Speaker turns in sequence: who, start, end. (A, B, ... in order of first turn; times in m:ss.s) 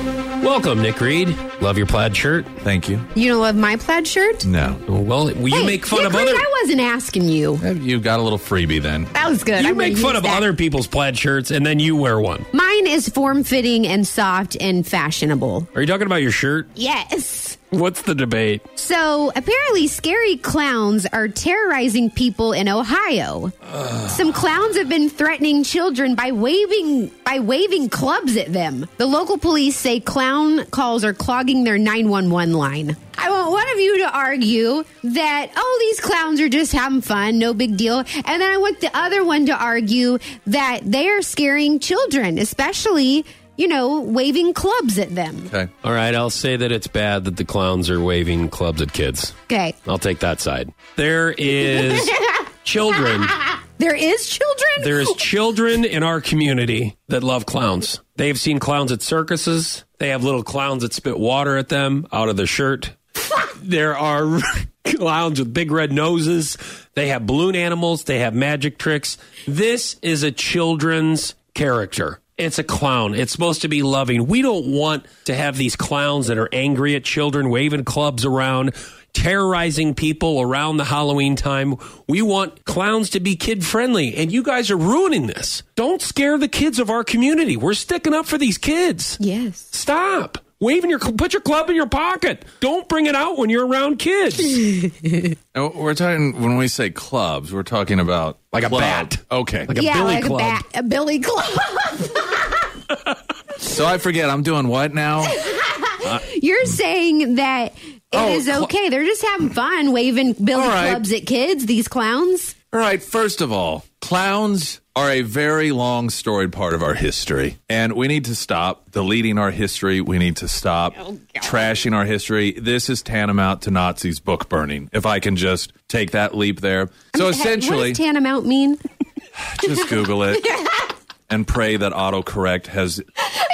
0:00.4-0:02.5 A
0:02.6-0:03.1 B
0:03.1-0:04.5 C
0:04.4-0:04.8 B
0:04.9-0:06.5 A
0:05.5-0:07.6 C
0:07.6-0:09.1 B
0:09.1-0:10.5 C
0:09.6-0:12.5 A
0:12.5-0:15.7 C
0:15.8-0:16.7 A
0:16.8-0:17.6 C
0:17.7-0:18.6 A
0:18.8-0:45.5 C
0:45.8-0:49.4 A
0:49.5-0:49.8 C
0:49.9-0:53.4 A
0:51.7-0:52.4 C
0:53.3-0:55.2 C
0:54.8-1:29.2 A
1:29.2-1:29.7 C
1:29.7-1:34.8 A
1:35.5-1:39.7 B
1:38.5-1:40.6 A
1:39.7-1:42.6 C
1:43.6-1:45.4 B
1:45.3-1:52.6 C
1:48.1-1:48.7 B
1:50.5-1:51.0 B
1:52.7-2:08.0 B
2:01.1-2:01.4 C
2:07.1-2:08.8 C
2:09.5-2:10.5 B
2:11.3-2:13.0 B